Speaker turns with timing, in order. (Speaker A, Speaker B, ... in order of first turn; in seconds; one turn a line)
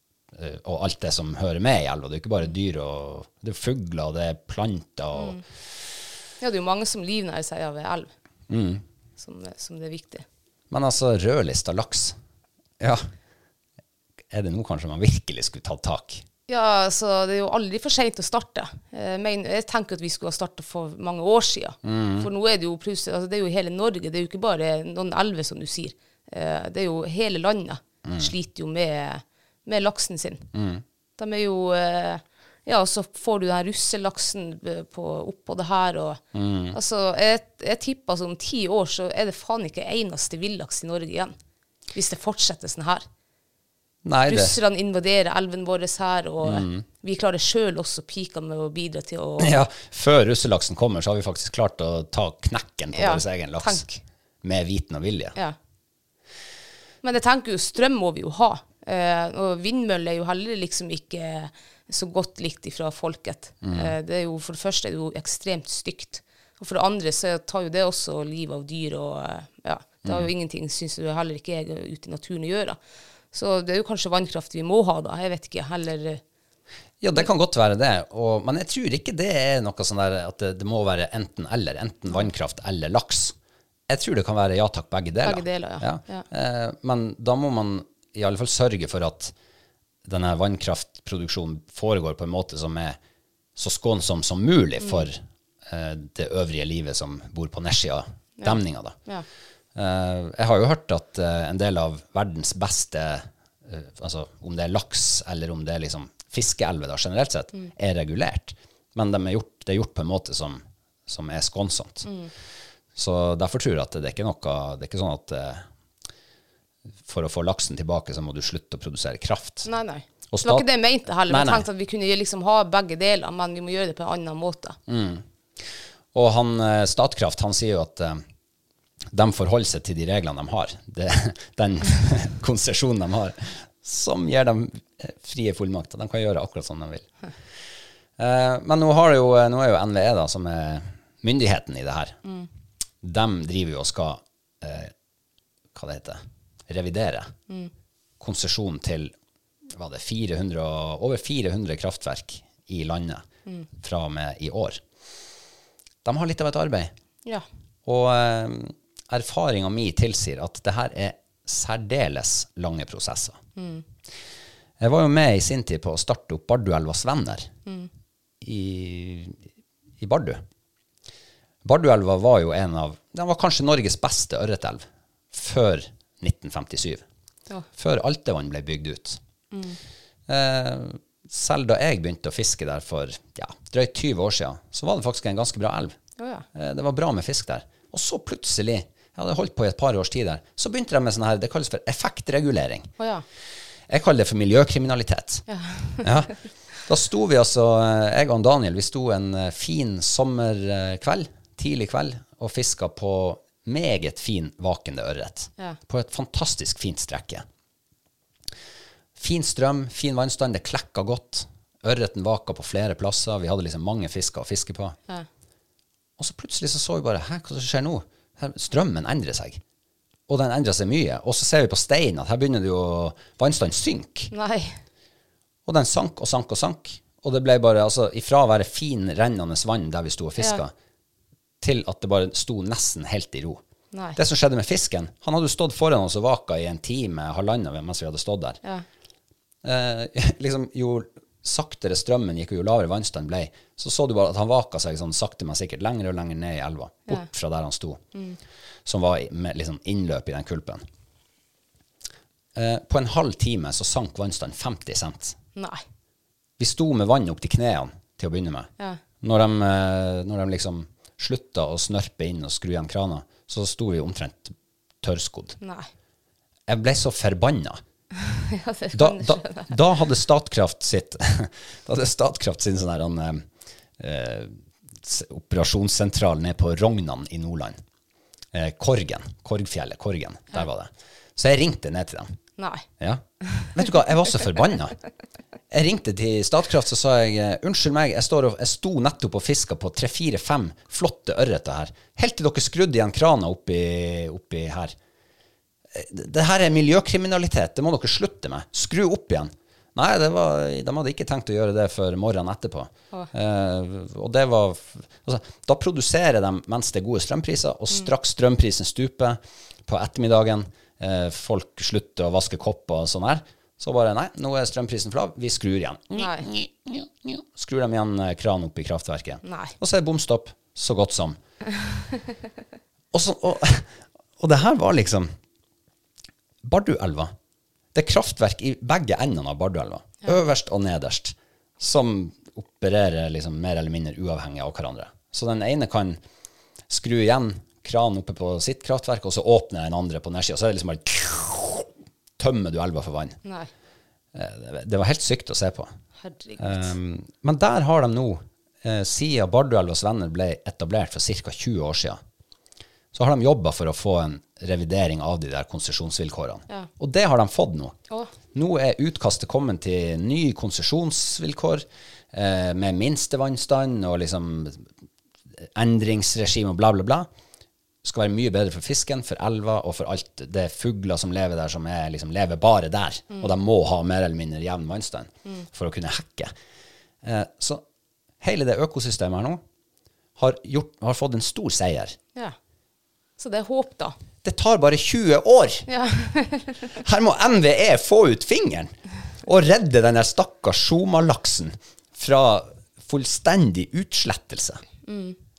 Speaker A: 0.3-5.4
Speaker B: 5.1-5.4
Speaker B: 6.4-8.1
Speaker A: 8.5-8.8
Speaker B: 9.2-10.2
Speaker A: 10.7-12.2
Speaker A: 12.8-13.1
Speaker A: 14.3-16.2
Speaker B: 16.5-30.4
Speaker A: 21.8-22.3
Speaker A: 28.0-28.3
Speaker A: 30.5-30.8
Speaker B: 31.2-36.2
Speaker A: 36.3-36.8
Speaker B: 36.7-41.3
Speaker B: 41.9-43.0
Speaker A: 44.0-44.6
Speaker B: 44.3-49.6
Speaker A: 46.4-46.9
Speaker A: 49.4-53.9
Speaker B: 52.9-54.0
Speaker A: 54.4-55.4
Speaker B: 57.0-72.8
Speaker A: 63.6-63.9
Speaker A: 70.0-70.3
Speaker B: 73.3-76.2
Speaker A: 77.0-83.3
Speaker A: 83.9-89.3
Speaker B: 85.2-86.2
Speaker A: 90.0-93.0
Speaker A: 93.5-99.0
Speaker B: 98.4-99.2
Speaker A: 99.7-112.1
Speaker B: 112.0-112.3
Speaker A: 113.0-115.7
Speaker A: 117.0-119.7
Speaker B: 119.6-124.8
Speaker A: 120.3-120.7
Speaker A: 121.3-121.7
Speaker A: 124.9-128.2
Speaker A: 129.1-137.1
Speaker A: 138.2-142.2
Speaker A: 143.0-144.9
Speaker A: 145.7-147.3
Speaker A: 148.2-149.1
Speaker A: 149.7-153.2
Speaker A: 153.8-154.8
Speaker A: 156.0-156.9
Speaker A: 157.8-163.4
Speaker B: 163.6-163.8
Speaker A: 164.8-167.5
Speaker A: 168.4-169.4
Speaker A: 170.0-170.4
Speaker A: 171.6-177.0
Speaker A: 177.8-179.2
Speaker B: 179.5-179.8
Speaker A: 180.3-185.9
Speaker B: 186.2-186.4
Speaker A: 186.5-192.9
Speaker B: 193.0-193.2
Speaker A: 193.9-195.4
Speaker B: 195.5-196.1
Speaker A: 196.0-196.3
Speaker A: 196.8-207.4
Speaker A: 209.2-215.0
Speaker A: 216.2-219.6
Speaker A: 220.3-224.3
Speaker B: 224.3-224.8
Speaker A: 225.7-230.7
Speaker A: 231.6-233.6
Speaker B: 233.9-234.2
Speaker A: 234.2-238.6
Speaker A: 239.6-248.0
Speaker B: 248.1-248.4
Speaker A: 248.8-250.8
Speaker A: 252.5-255.4
Speaker B: 255.6-255.8
Speaker A: 256.6-258.7
Speaker A: 259.2-265.6
Speaker B: 265.6-265.9
Speaker A: 266.7-267.8
Speaker B: 268.2-269.8
Speaker A: 268.9-273.4
Speaker A: 274.0-277.8
Speaker A: 278.5-282.3
Speaker B: 282.6-282.9
Speaker A: 283.0-284.9
Speaker A: 285.7-294.9
Speaker A: 295.9-321.4
Speaker B: 316.1-316.5
Speaker B: 319.4-319.7
Speaker A: 323.1-325.3
Speaker A: 326.6-327.3
Speaker A: 327.9-336.2
Speaker A: 336.9-343.4
Speaker B: 343.4-343.7
Speaker A: 344.3-345.9
Speaker B: 346.2-346.9
Speaker A: 346.6-352.2
Speaker A: 353.1-357.9
Speaker A: 358.5-364.9
Speaker A: 365.5-367.3
Speaker A: 368.0-376.5
Speaker A: 377.2-377.8
Speaker A: 378.4-379.6
Speaker A: 380.4-382.2
Speaker B: 383.4-384.1
Speaker A: 384.4-385.9
Speaker B: 385.9-386.9
Speaker A: 387.0-394.8
Speaker B: 395.1-395.4